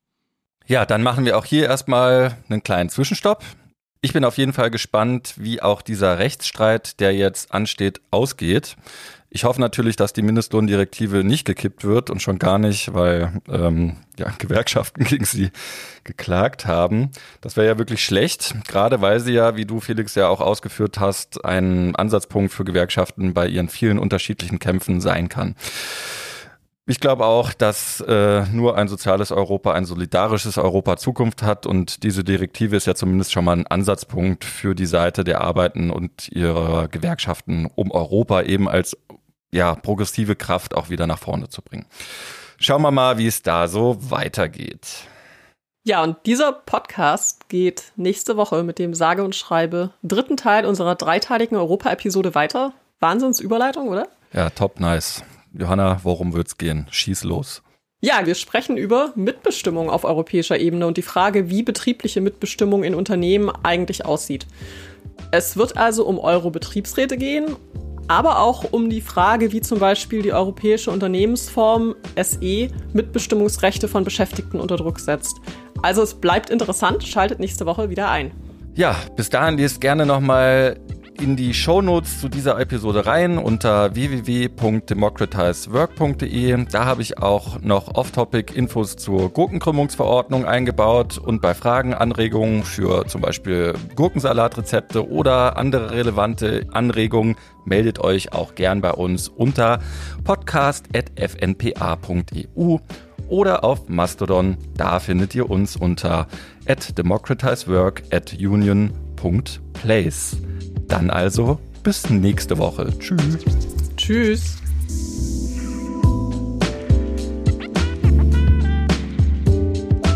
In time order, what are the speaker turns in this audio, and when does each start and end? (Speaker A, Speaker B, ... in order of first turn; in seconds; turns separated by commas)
Speaker A: 0.7-3.5, Speaker A: 4.0-8.8, Speaker A: 9.3-15.5, Speaker A: 16.0-39.0, Speaker A: 39.5-41.9, Speaker A: 42.6-45.1, Speaker B: 45.9-54.1, Speaker A: 54.3-57.6, Speaker B: 58.0-64.5, Speaker B: 65.3-67.6, Speaker B: 68.1-78.3, Speaker A: 78.8-113.4, Speaker B: 114.0-114.6